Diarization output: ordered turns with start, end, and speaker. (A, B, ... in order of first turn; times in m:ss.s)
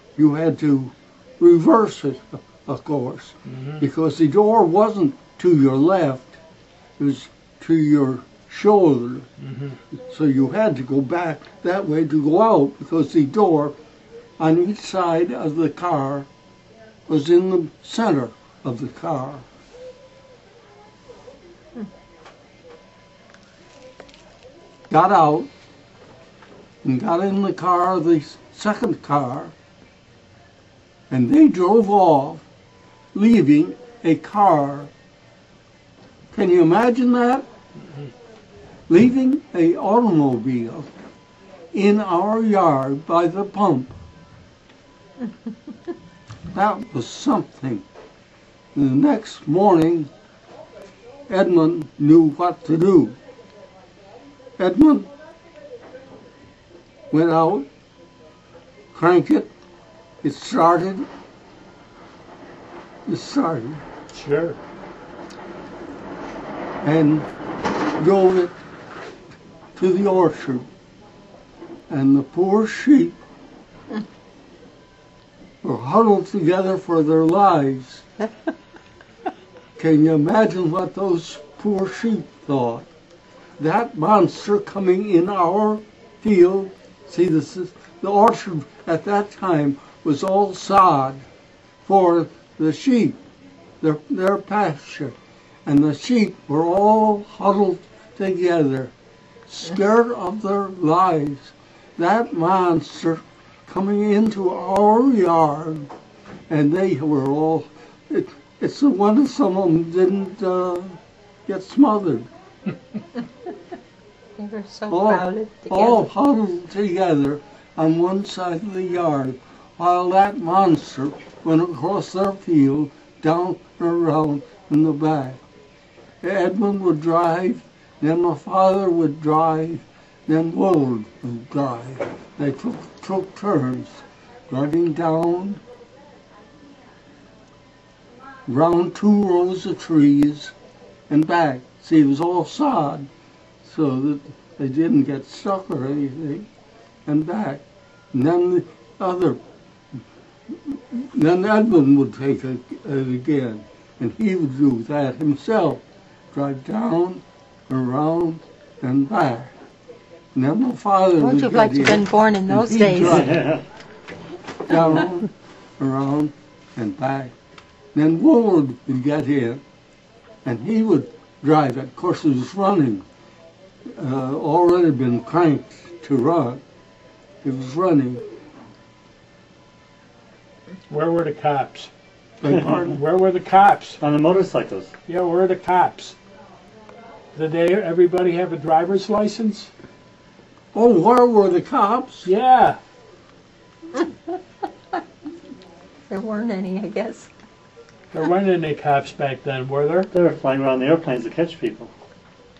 0:00.2-0:06.4 A
0:03.5-0:03.8 B
0:07.0-0:09.3 A
0:09.4-0:09.8 B
0:10.1-0:13.7 A
0:14.4-0:16.3 A
0:17.1-0:19.4 A
0:24.9-0:25.5 A
0:26.8-0:29.5 A
0:31.1-0:32.4 A
0:33.1-0:34.9 A
0:36.3-0:37.4 A
0:38.9-0:40.9 A
0:41.7-0:44.0 A
0:46.5-0:47.8 A
0:48.7-0:50.1 A
0:51.3-0:53.2 A
0:54.6-0:55.1 A
0:57.1-0:57.6 A
0:58.9-0:59.5 A
1:00.2-1:01.1 A
1:03.1-1:03.8 A
1:04.1-1:04.6 B
1:06.8-1:07.3 A
1:08.0-1:08.5 A
1:09.8-1:10.6 A
1:11.9-1:13.2 A
1:15.6-1:18.0 A
1:19.8-1:22.9 A
1:23.6-1:31.2 A
1:31.8-1:33.2 A
1:33.8-1:35.1 A
1:35.6-1:38.9 A
1:39.4-1:45.9 A
1:46.5-1:52.2 A
1:54.4-1:56.1 C
1:54.9-2:05.4 A
2:06.2-2:15.6 A
2:18.4-2:20.5 A
2:21.1-2:23.1 A
2:23.6-2:26.5 A
2:27.0-2:29.4 A
2:30.6-2:39.5 A
2:40.3-2:43.4 A
2:41.2-2:43.4 C
2:43.2-2:43.6 D
2:44.6-2:47.3 A
2:47.9-2:49.6 A
2:50.4-2:53.0 A
2:53.9-2:56.6 A
2:57.4-2:58.2 A
3:00.9-3:01.9 B
3:02.4-3:03.0 A
3:02.6-3:04.0 B
3:04.0-3:04.9 D
3:05.0-3:06.2 B
3:07.3-3:09.7 B
3:10.7-3:12.3 A
3:12.2-3:12.8 B
3:16.1-3:17.3 C
3:18.1-3:20.1 B
3:20.1-3:21.9 D